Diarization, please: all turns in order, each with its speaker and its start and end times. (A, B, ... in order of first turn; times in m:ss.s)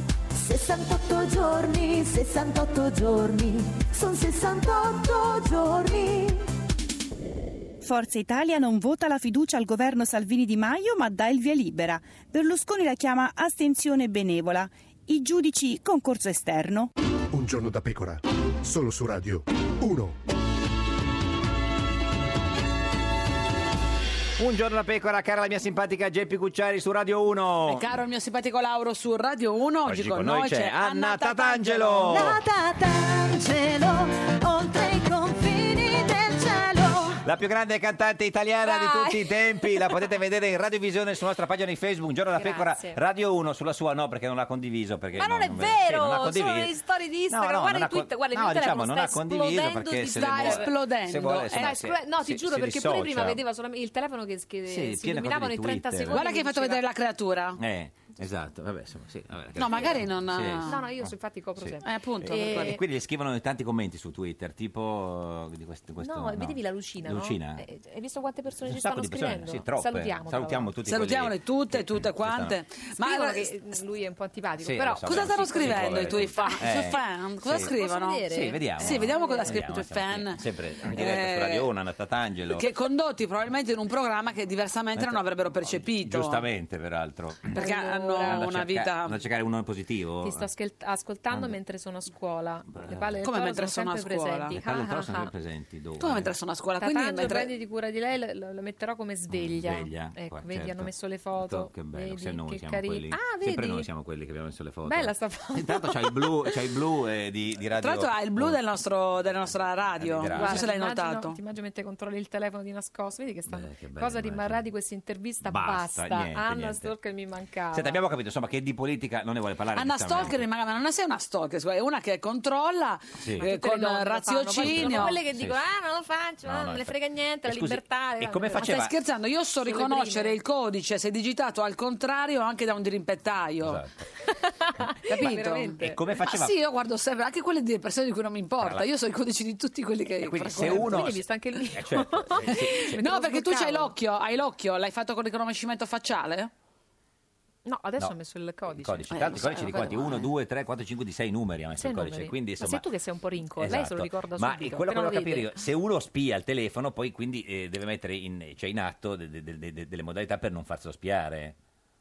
0:00.3-0:06.4 A
0:07.8-0:16.9 B
0:17.3-0:20.2 C
0:24.4-0:27.8 D
0:27.7-0:32.3 E
0:29.8-0:32.4 D
0:32.1-0:37.2 A
0:37.2-0:46.7 D
0:38.6-0:39.9 F
0:42.3-0:43.0 F
0:45.2-0:50.7 F
0:47.3-0:53.4 D
0:50.1-0:51.8 E
0:51.5-0:56.8 F
0:54.7-0:56.2 D
0:56.1-0:57.6 E
0:57.6-1:07.6 D
0:59.6-1:00.8 E
1:00.6-1:02.8 F
1:01.8-1:02.8 E
1:06.0-1:10.7 F
1:08.6-1:12.6 D
1:10.9-1:13.5 E
1:13.0-1:16.6 F
1:14.6-1:17.7 D
1:15.0-1:21.7 E
1:17.6-1:19.6 F
1:18.3-1:22.7 D
1:22.5-1:26.4 E
1:25.0-1:27.6 D
1:27.5-1:29.2 E
1:27.5-1:28.4 F
1:28.2-1:30.5 D
1:30.2-1:35.3 F
1:31.3-1:31.6 D
1:32.7-1:33.2 D
1:33.2-1:34.6 E
1:34.5-1:36.3 D
1:36.0-1:37.5 E
1:36.8-1:43.9 F
1:39.3-1:48.6 D
1:44.8-1:46.3 F
1:47.8-1:51.4 E
1:49.8-1:50.7 D
1:50.3-1:58.0 F
1:53.5-1:54.6 D
1:55.4-1:56.9 D
1:57.7-2:00.4 D
1:59.7-2:05.2 E
2:03.2-2:03.5 D
2:03.4-2:08.7 F
2:04.6-2:05.6 D
2:06.4-2:08.9 D
2:08.6-2:13.8 E
2:09.6-2:10.4 F
2:13.6-2:14.1 D
2:14.4-2:16.0 F
2:15.1-2:21.0 E
2:15.8-2:16.5 D
2:18.6-2:18.9 D
2:20.2-2:23.0 D
2:20.6-2:23.9 F
2:22.5-2:26.5 E
2:27.6-2:29.7 F
2:28.7-2:32.8 D
2:29.5-2:30.0 E
2:31.8-2:35.5 F
2:33.6-2:41.6 D